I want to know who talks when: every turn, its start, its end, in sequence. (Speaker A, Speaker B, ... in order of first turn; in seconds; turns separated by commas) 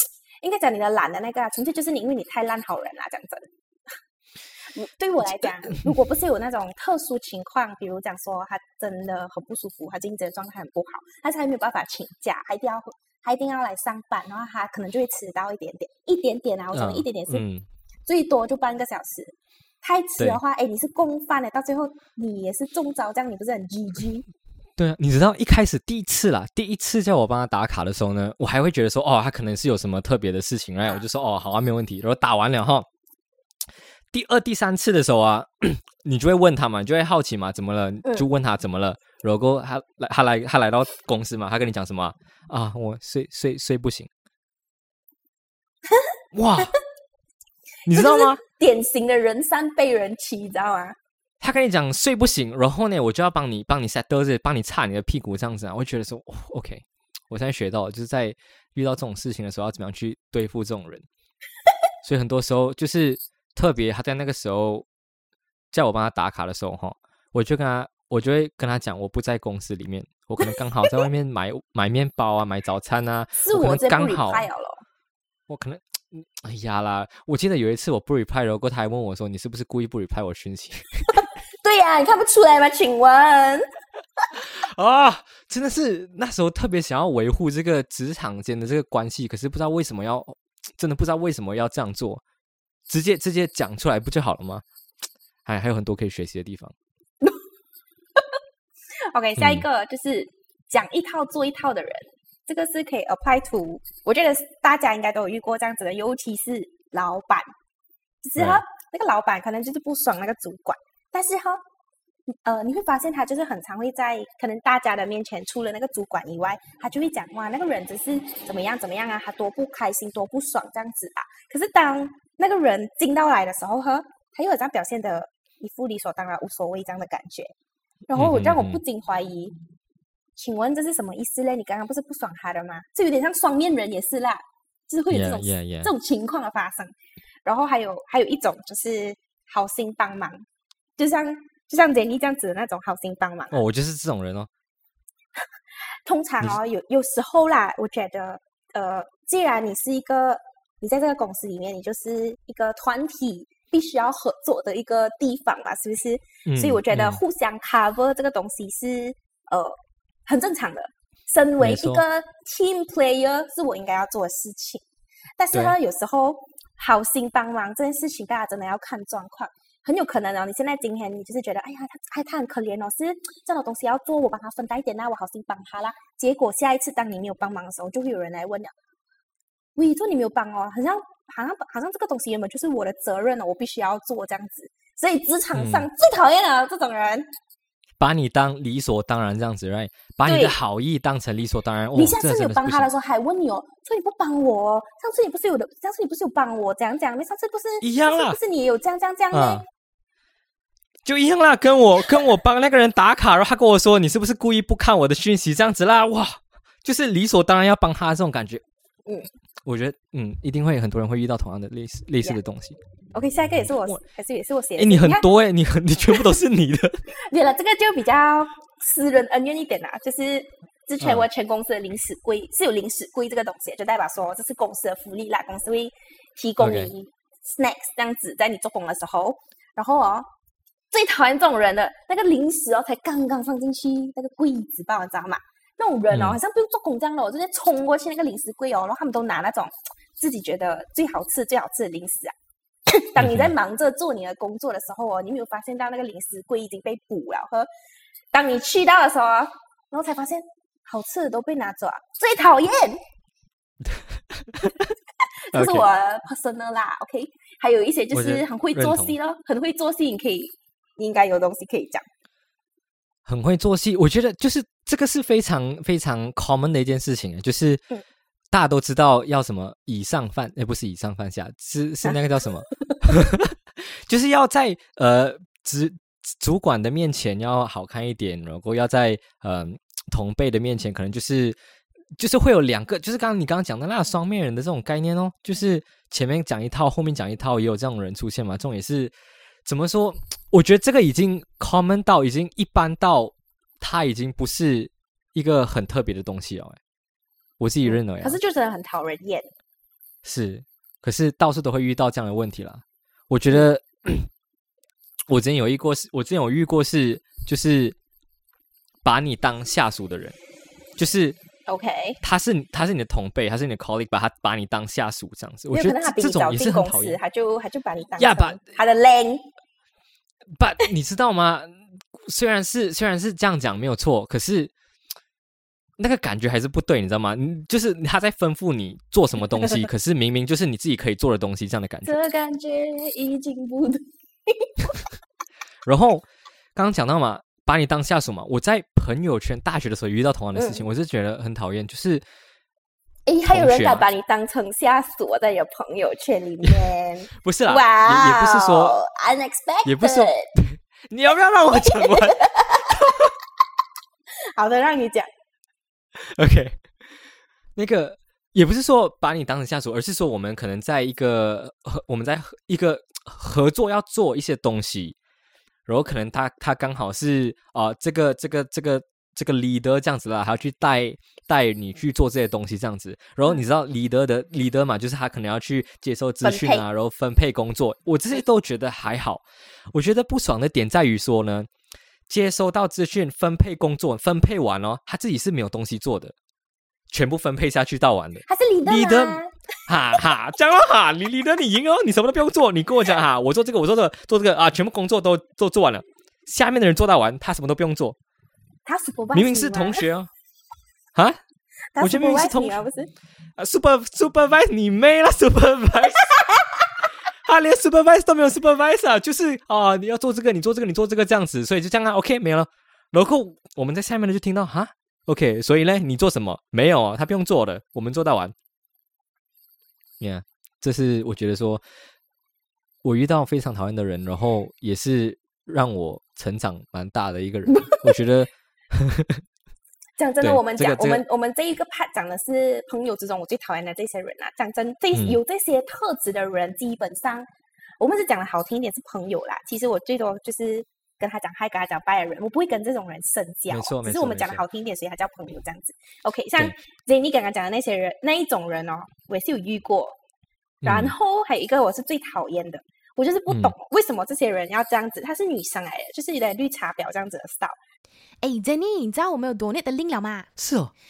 Speaker A: 0.4-3.9, Speaker A: 4.6-17.4, Speaker B: 16.7-17.6, Speaker A: 18.1-24.2, Speaker B: 24.8-32.9, Speaker B: 34.1-44.1, Speaker B: 46.3-46.8, Speaker B: 47.9-48.4, Speaker A: 47.9-51.0, Speaker B: 51.4-61.0, Speaker B: 62.0-64.8, Speaker B: 65.7-74.5, Speaker A: 73.4-74.8, Speaker B: 75.5-81.2, Speaker A: 81.6-83.6, Speaker B: 84.4-92.2, Speaker B: 92.9-94.6, Speaker B: 95.5-96.7, Speaker A: 99.0-107.5, Speaker B: 99.4-99.6, Speaker A: 108.2-111.6, Speaker A: 112.3-127.5, Speaker A: 128.1-129.5, Speaker B: 128.1-128.8, Speaker A: 130.3-140.4, Speaker B: 135.1-135.9, Speaker A: 141.0-143.6, Speaker B: 143.5-144.5, Speaker A: 146.0-164.8, Speaker B: 156.4-157.2, Speaker B: 161.6-162.0, Speaker A: 165.4-178.7, Speaker A: 179.8-187.3, Speaker B: 185.5-185.9, Speaker B: 188.0-192.9, Speaker A: 190.2-190.6, Speaker A: 191.9-199.6, Speaker B: 197.8-198.4, Speaker B: 199.3-199.6, Speaker B: 201.1-208.6, Speaker B: 209.7-212.8, Speaker A: 213.1-215.2, Speaker B: 214.8-217.0, Speaker A: 217.2-230.3, Speaker B: 221.0-221.3, Speaker B: 226.6-226.9, Speaker A: 230.9-242.3, Speaker B: 236.1-236.4, Speaker A: 242.9-247.7, Speaker B: 243.2-243.5, Speaker A: 248.3-253.0, Speaker B: 253.9-254.9, Speaker A: 255.5-262.1, Speaker B: 255.5-255.8, Speaker B: 258.1-259.1, Speaker B: 263.2-267.8, Speaker B: 268.5-281.6, Speaker B: 282.2-289.1, Speaker B: 289.6-296.8, Speaker B: 297.6-298.4, Speaker A: 297.9-299.5, Speaker B: 300.2-304.3, Speaker B: 305.3-308.0, Speaker B: 309.0-310.4, Speaker B: 311.0-311.4, Speaker A: 311.7-312.2, Speaker B: 312.2-317.2, Speaker A: 315.7-319.4, Speaker B: 318.2-318.7, Speaker B: 320.6-324.7, Speaker B: 326.0-332.2, Speaker A: 332.0-335.0, Speaker B: 335.9-342.2, Speaker A: 340.6-340.8, Speaker A: 343.2-350.4, Speaker B: 343.5-344.1, Speaker B: 346.6-349.0, Speaker B: 349.8-353.3, Speaker A: 351.8-352.9, Speaker A: 354.6-355.3, Speaker B: 356.2-356.8, Speaker B: 357.8-365.1, Speaker B: 365.9-381.7, Speaker A: 376.4-376.8, Speaker B: 382.3-386.3, Speaker B: 387.1-398.2, Speaker A: 388.5-389.5, Speaker A: 398.8-400.0, Speaker B: 399.3-400.3, Speaker A: 401.9-403.1, Speaker B: 402.0-402.8, Speaker B: 403.6-406.5, Speaker B: 407.4-418.5, Speaker B: 420.2-421.8, Speaker B: 423.0-429.4, Speaker A: 430.2-437.5, Speaker B: 430.4-431.2, Speaker B: 435.1-435.4, Speaker A: 438.0-450.2, Speaker B: 443.7-444.6, Speaker B: 450.8-451.1, Speaker A: 450.8-457.8, Speaker B: 453.5-453.7, Speaker C: 458.4-460.5, Speaker B: 460.6-460.9